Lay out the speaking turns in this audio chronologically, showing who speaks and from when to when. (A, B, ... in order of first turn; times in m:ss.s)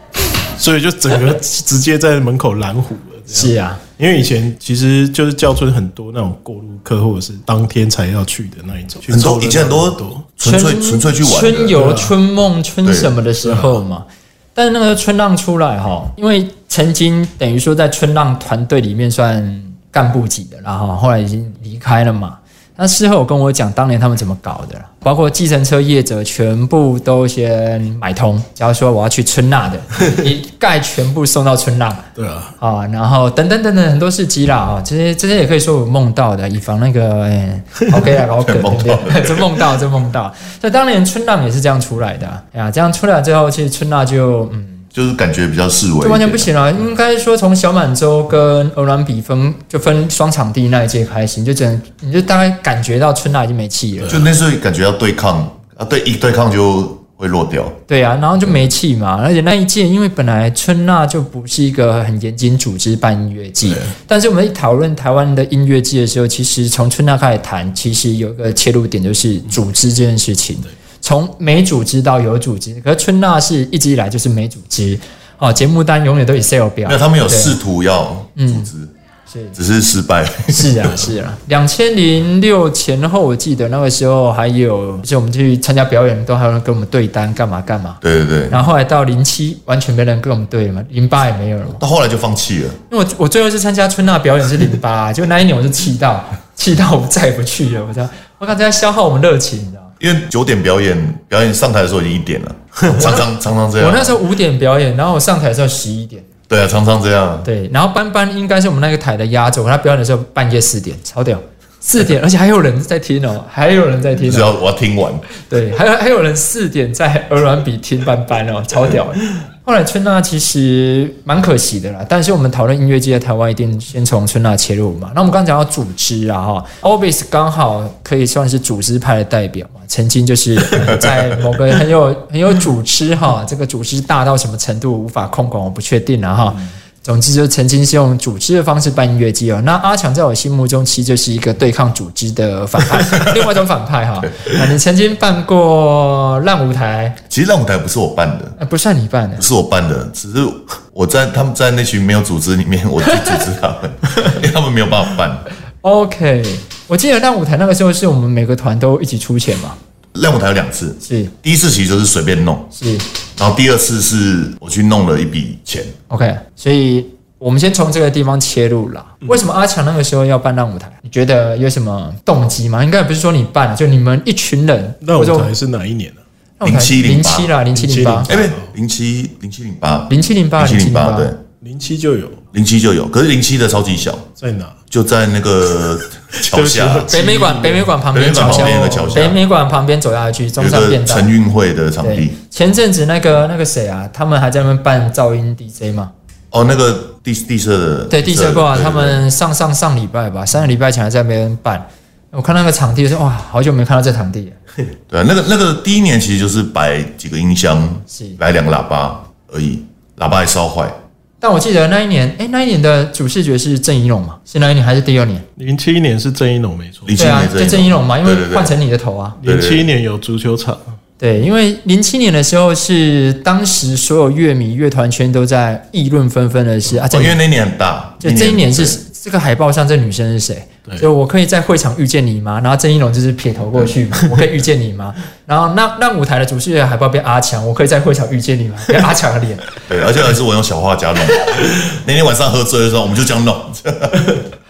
0:00.4-0:10.3 A
0:03.3-0:03.8 B
0:09.1-0:11.8 C
0:10.4-0:32.1 B
0:11.7-0:12.1 A
0:12.8-0:13.1 C
0:13.4-0:13.8 A
0:32.2-0:32.5 A
0:32.6-0:44.8 B
0:38.4-0:39.8 C
0:44.9-0:46.5 C
0:46.0-0:54.2 B
0:54.1-0:57.8 C
0:57.9-1:17.6 B
1:03.6-1:03.9 A
1:16.8-1:18.9 C
1:18.4-1:18.7 B
1:19.3-1:19.6 B
1:19.6-1:21.0 C
1:20.5-1:31.8 B
1:28.0-1:28.6 C
1:31.8-1:32.8 C
1:32.9-1:39.9 B
1:40.0-1:44.2 C
1:42.9-1:43.2 B
1:43.8-1:46.2 B
1:46.5-1:47.5 C
1:47.4-1:54.5 B
1:54.2-1:55.3 C
1:55.3-2:27.2 B
2:27.3-2:28.6 C
2:28.6-2:29.5 B
2:29.4-2:35.5 C
2:35.8-2:39.8 B
2:40.1-2:42.7 C
2:41.0-2:41.3 B
2:42.7-2:43.1 B
2:43.4-2:45.9 C
2:46.1-2:55.5 B
2:55.0-2:56.2 A
2:56.6-2:58.3 B
2:56.6-2:57.5 C
2:57.7-2:58.7 A
2:58.3-3:01.4 C
3:00.1-3:01.3 B
3:01.6-3:02.4 A
3:02.5-3:04.3 C
3:04.4-3:04.8 A
3:04.9-3:07.1 C
3:06.3-3:09.2 A
3:07.1-3:11.3 B
3:08.1-3:09.4 C
3:10.6-3:12.4 C
3:12.0-3:16.1 B
3:16.5-3:19.2 C
3:18.1-3:24.6 B
3:25.1-3:31.0 C
3:28.1-3:28.4 B
3:31.4-3:35.4 B
3:35.6-3:37.2 A
3:37.0-3:38.7 C
3:37.2-3:39.4 B
3:39.4-3:41.0 A
3:39.4-3:39.9 C
3:41.2-3:47.4 B
3:47.0-3:49.0 C
3:48.2-3:59.8 B
3:59.9-4:04.4 C